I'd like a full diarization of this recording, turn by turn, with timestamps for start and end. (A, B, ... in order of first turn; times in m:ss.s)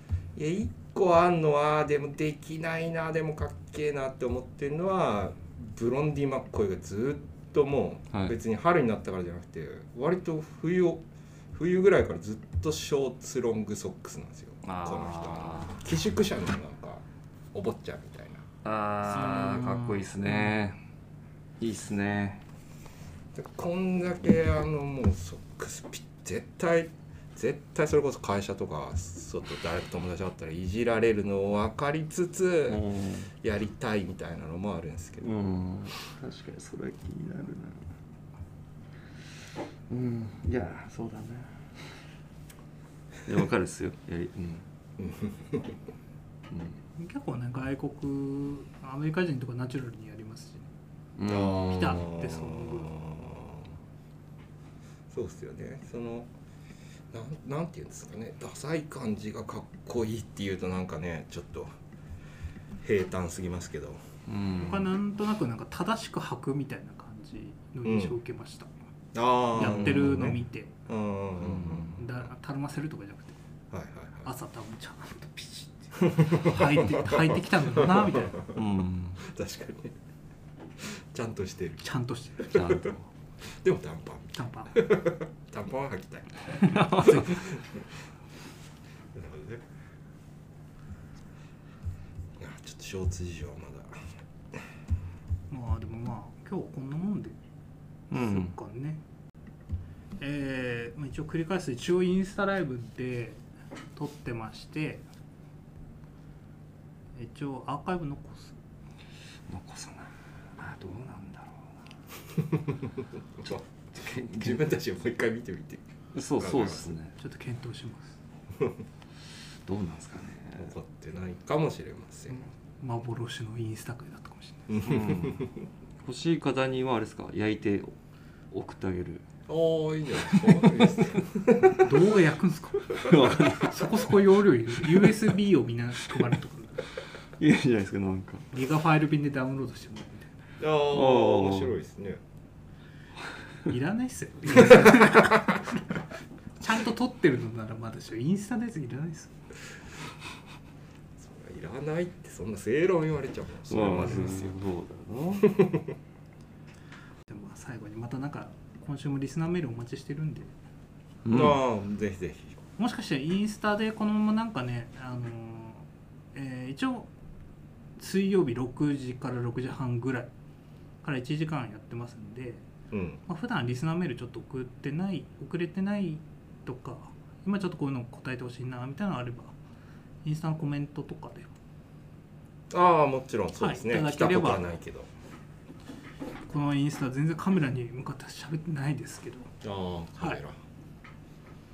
0:00.4-0:18.4 A
0:14.6-0:15.8 B
0:18.6-0:20.8 B
0:19.0-0:20.5 A
0:21.6-0:22.4 B
0:23.3-0:32.8 A
0:32.7-0:33.3 B
0:33.4-0:35.3 A
0:35.2-0:37.8 B
0:39.9-0:41.8 B
0:43.2-0:44.6 B
0:45.0-0:45.7 A
0:46.5-0:46.8 B
0:47.0-0:50.7 C
0:51.2-0:52.1 B
0:51.3-0:53.7 A
0:51.6-0:52.9 C
0:55.1-0:56.3 A
0:57.1-1:01.7 A
1:02.8-1:04.0 A
1:04.3-1:04.9 B
1:04.5-1:08.7 C
1:07.8-1:08.2 A
1:09.1-1:11.9 A
1:09.6-1:10.7 C
1:09.6-1:10.2 B
1:11.4-1:12.0 B
1:12.0-1:13.4 C
1:13.7-1:14.3 A
1:14.2-1:18.4 C
1:16.0-1:18.6 A
1:18.6-1:19.2 B
1:19.2-1:19.9 A
1:20.8-1:21.9 A
1:21.8-1:22.6 C
1:22.4-1:22.9 A
1:22.5-1:23.1 B
1:23.6-1:26.3 A
1:24.3-1:24.8 C
1:26.5-1:27.4 C
1:26.6-1:27.2 B
1:26.9-1:27.5 A
1:29.1-1:29.6 A
1:32.4-1:34.0 A
1:35.5-1:37.4 C
1:38.1-1:38.6 B
1:38.1-1:39.0 C
1:40.2-1:43.4 C
1:44.0-1:45.1 C
1:47.2-1:48.6 C
1:49.5-1:51.7 B
1:52.5-1:52.7 A
1:53.4-1:55.8 A
1:53.4-1:54.6 B
1:56.1-1:57.2 B
1:56.4-1:56.9 A
1:57.2-1:58.2 C
1:59.7-2:00.7 B
2:00.6-2:02.5 A
2:02.3-2:04.8 C
2:04.7-2:05.5 A
2:04.8-2:05.5 B
2:06.0-2:07.9 B
2:08.5-2:09.2 B
2:09.5-2:11.8 A
2:10.3-2:11.0 B
2:11.8-2:16.8 C
2:13.0-2:14.1 B
2:17.4-2:18.4 B
2:18.5-2:20.4 C
2:20.6-2:22.2 A
2:20.9-2:21.8 B
2:23.7-2:25.6 C
2:26.6-2:29.3 C
2:31.2-2:34.6 A
2:33.7-2:35.5 B
2:35.4-2:35.9 A
2:37.3-2:40.6 C
2:41.2-2:41.6 B
2:41.3-2:42.6 A
2:42.8-2:47.1 C
2:48.0-2:50.3 C
2:51.0-2:52.7 C
2:52.9-2:53.2 A
2:53.3-2:59.6 C
3:00.2-3:01.5 C
3:02.7-3:05.1 A
3:03.6-3:04.7 C
3:06.5-3:09.5 C
3:09.6-3:10.6 A